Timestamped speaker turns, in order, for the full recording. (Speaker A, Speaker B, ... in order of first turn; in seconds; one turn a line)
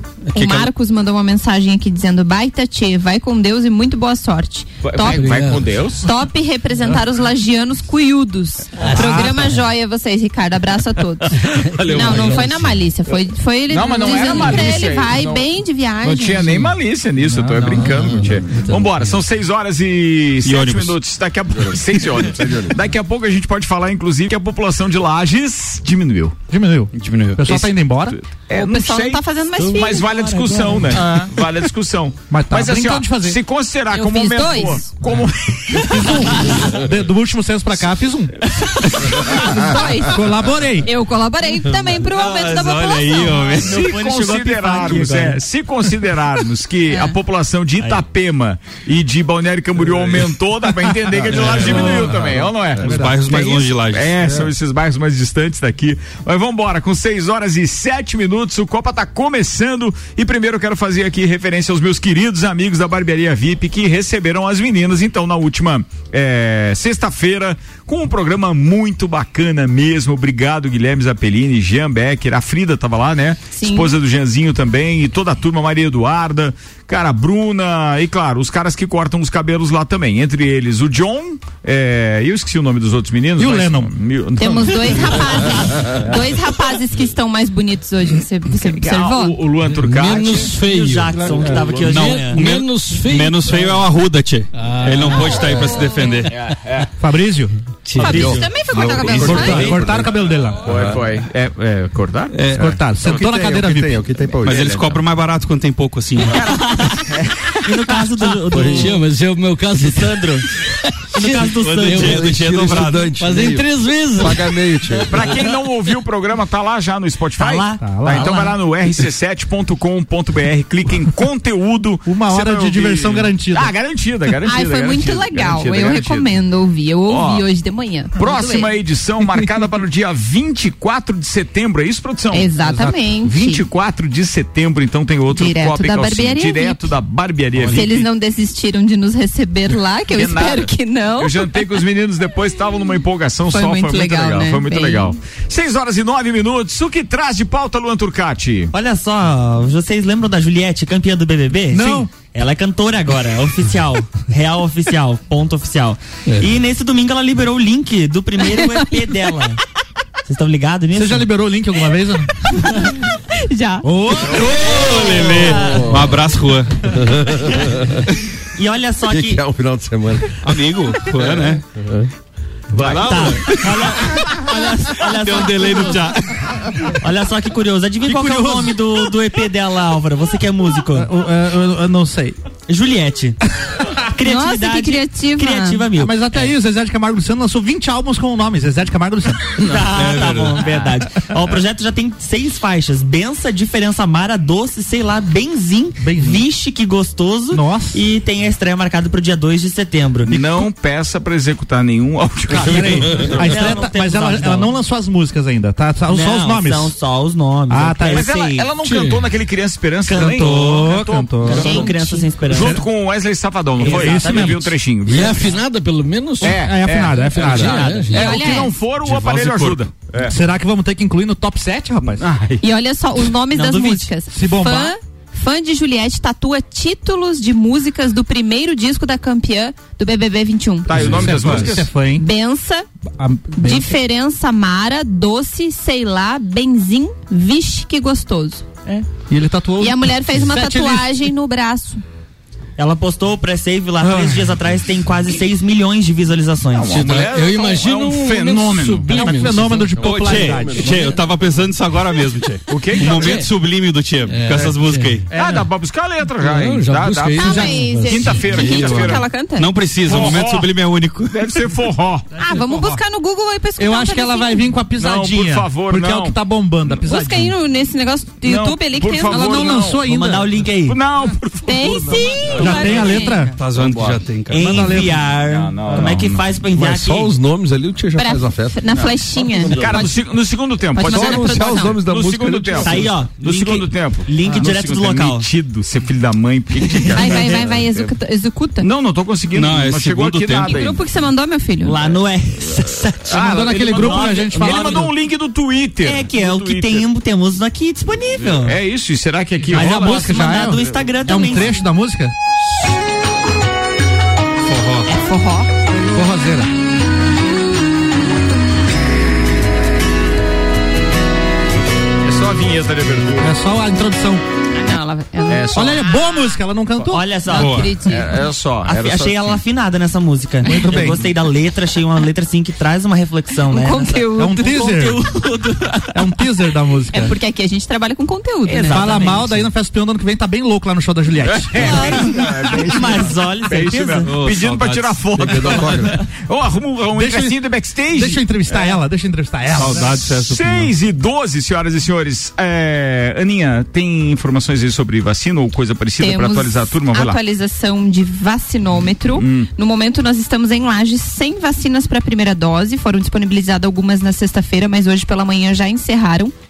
Speaker A: 0.3-5.5
Speaker B: 0.3-0.7
Speaker C: 4.8-6.1
Speaker D: 5.0-5.8
Speaker A: 6.0-16.5
Speaker D: 8.8-9.6
Speaker E: 8.9-9.5
Speaker D: 11.5-12.7
Speaker C: 11.8-12.5
Speaker C: 13.7-15.5
Speaker C: 16.0-26.4
Speaker E: 16.4-18.6
Speaker D: 17.6-19.1
Speaker B: 20.4-21.0
Speaker F: 21.6-22.7
Speaker E: 26.5-28.2
Speaker B: 26.9-27.4
Speaker C: 27.4-36.4
Speaker A: 28.5-30.9
Speaker G: 29.6-31.0
Speaker E: 30.9-31.3
Speaker E: 32.3-33.4
Speaker A: 33.9-34.9
Speaker E: 35.9-38.4
Speaker G: 38.6-39.1
Speaker E: 39.3-40.9
Speaker A: 39.3-40.2
Speaker A: 40.8-43.7
Speaker B: 42.1-43.8
Speaker G: 43.6-45.4
Speaker C: 43.6-85.4
Speaker A: 46.9-47.1
Speaker B: 51.2-54.3
Speaker E: 52.8-53.3
Speaker A: 73.5-73.9
Speaker E: 83.4-83.9
Speaker A: 84.4-89.4
Speaker C: 88.6-90.6
Speaker D: 89.8-93.7
Speaker G: 90.5-92.6
Speaker C: 91.1-92.2
Speaker B: 91.9-96.3
Speaker D: 94.6-96.2
Speaker A: 95.7-96.2
Speaker C: 96.3-96.9
Speaker E: 97.0-98.4
Speaker D: 97.9-98.3
Speaker G: 98.0-98.4
Speaker A: 98.0-99.8
Speaker F: 98.0-100.2
Speaker E: 99.1-100.7
Speaker C: 99.4-99.8
Speaker C: 100.6-103.3
Speaker B: 102.3-102.7
Speaker E: 102.6-104.0
Speaker F: 102.6-104.8
Speaker B: 104.4-106.4
Speaker C: 104.5-105.0
Speaker C: 106.3-107.6
Speaker G: 106.4-107.0
Speaker G: 107.6-109.0
Speaker F: 108.5-108.9
Speaker D: 108.6-115.0
Speaker G: 109.8-110.5
Speaker G: 111.1-112.3
Speaker B: 111.6-113.1
Speaker F: 111.9-115.3
Speaker C: 115.1-126.3
Speaker G: 117.4-118.5
Speaker E: 117.8-118.5
Speaker E: 122.1-123.8
Speaker A: 124.5-128.7
Speaker C: 127.1-127.5
Speaker C: 128.2-132.6
Speaker E: 128.3-128.6
Speaker A: 132.3-133.6
Speaker E: 132.6-132.9
Speaker C: 133.2-138.1
Speaker A: 135.3-136.9
Speaker E: 137.6-137.8
Speaker A: 137.7-141.8
Speaker C: 140.1-148.7
Speaker A: 143.5-145.2
Speaker G: 148.7-159.6
Speaker E: 151.7-152.1
Speaker G: 160.3-161.3
Speaker E: 160.9-162.7
Speaker A: 163.4-164.4
Speaker E: 163.8-165.6
Speaker C: 164.3-164.7
Speaker B: 164.7-166.8
Speaker G: 164.8-165.5
Speaker F: 165.5-166.2
Speaker F: 167.0-167.6
Speaker G: 168.6-169.4
Speaker F: 169.1-170.3
Speaker B: 170.4-171.6
Speaker F: 171.2-172.1
Speaker C: 172.7-173.2
Speaker B: 172.8-176.4
Speaker G: 172.8-181.1
Speaker E: 178.1-179.1
Speaker E: 180.9-182.4
Speaker G: 182.7-183.4
Speaker G: 184.1-186.5
Speaker A: 184.2-185.8
Speaker E: 186.0-189.6
Speaker G: 189.6-200.3
Speaker B: 189.9-190.9
Speaker E: 196.0-196.4
Speaker E: 197.5-198.0
Speaker C: 200.3-203.3
Speaker E: 200.3-200.6
Speaker G: 202.5-204.7
Speaker E: 202.6-206.9
Speaker G: 206.1-208.7
Speaker E: 207.7-208.3
Speaker C: 208.1-211.9
Speaker D: 208.8-209.3
Speaker G: 210.1-212.8
Speaker E: 210.1-212.8
Speaker A: 211.6-212.2
Speaker C: 212.5-215.6
Speaker G: 213.8-214.7
Speaker E: 213.8-214.7
Speaker D: 215.1-218.4
Speaker E: 216.4-218.0
Speaker C: 216.4-220.3
Speaker G: 217.5-218.1
Speaker A: 218.1-218.7
Speaker B: 219.0-219.8
Speaker E: 220.2-222.3
Speaker C: 222.0-222.6
Speaker A: 222.6-231.2
Speaker G: 223.5-224.1
Speaker E: 224.3-225.0
Speaker C: 230.9-231.9
Speaker E: 230.9-232.3
Speaker A: 232.2-232.9
Speaker E: 233.2-233.9
Speaker A: 233.6-238.7
Speaker E: 238.9-241.1
Speaker A: 239.8-242.0
Speaker G: 242.8-247.2
Speaker E: 244.0-244.5
Speaker C: 246.7-249.4
Speaker D: 246.9-250.2
Speaker E: 249.1-251.1
Speaker F: 250.0-251.0
Speaker B: 250.0-255.3
Speaker D: 250.8-251.2
Speaker C: 252.7-253.5
Speaker D: 253.0-253.4
Speaker D: 254.3-255.2
Speaker E: 255.3-255.7
Speaker C: 255.3-259.3
Speaker D: 256.4-259.0
Speaker A: 257.4-259.7
Speaker E: 257.5-258.1
Speaker B: 258.5-261.6
Speaker C: 260.0-260.7
Speaker C: 261.3-262.3
Speaker A: 262.4-264.6
Speaker E: 262.4-263.0
Speaker E: 263.8-267.6
Speaker C: 265.0-267.0
Speaker A: 267.0-269.9
Speaker C: 268.4-270.1
Speaker E: 269.3-270.7
Speaker G: 270.0-271.0
Speaker C: 270.9-273.2
Speaker A: 271.6-273.5
Speaker G: 272.2-273.5
Speaker E: 272.6-273.6
Speaker B: 272.6-273.0
Speaker B: 273.6-275.1
Speaker C: 273.7-274.2
Speaker G: 274.5-277.3
Speaker E: 274.6-275.3
Speaker C: 275.4-276.5
Speaker F: 276.7-280.1
Speaker A: 278.2-280.2
Speaker C: 279.7-288.1
Speaker A: 280.9-282.0
Speaker F: 281.0-283.2
Speaker G: 282.8-285.5
Speaker E: 284.4-284.7
Speaker G: 287.1-287.6
Speaker A: 287.2-288.9
Speaker C: 288.8-291.0
Speaker B: 289.5-290.8
Speaker A: 290.6-292.0
Speaker G: 291.8-295.1
Speaker C: 293.3-297.1
Speaker E: 293.3-295.1
Speaker G: 296.0-298.8
Speaker C: 298.5-300.4
Speaker G: 299.7-301.8
Speaker E: 299.7-302.3
Speaker B: 304.7-305.1
Speaker A: 305.1-305.7
Speaker E: 305.9-306.7
Speaker C: 312.2-313.5
Speaker E: 313.4-314.4
Speaker A: 314.7-315.8
Speaker C: 315.5-316.1
Speaker E: 315.7-317.2
Speaker G: 317.1-317.9
Speaker A: 317.5-318.4
Speaker B: 317.5-317.9
Speaker C: 318.1-319.6
Speaker G: 318.8-326.1
Speaker E: 320.6-321.2
Speaker A: 323.7-324.9
Speaker E: 324.4-325.2
Speaker E: 326.1-327.3
Speaker A: 327.1-329.4
Speaker G: 328.7-329.6
Speaker E: 328.9-333.3
Speaker C: 329.0-329.3
Speaker C: 331.5-339.0
Speaker G: 331.8-334.3
Speaker B: 334.2-335.9
Speaker F: 335.4-336.1
Speaker E: 337.1-337.6
Speaker E: 338.1-340.2
Speaker B: 339.7-340.9
Speaker C: 339.8-347.4
Speaker A: 346.2-356.5
Speaker C: 349.4-349.7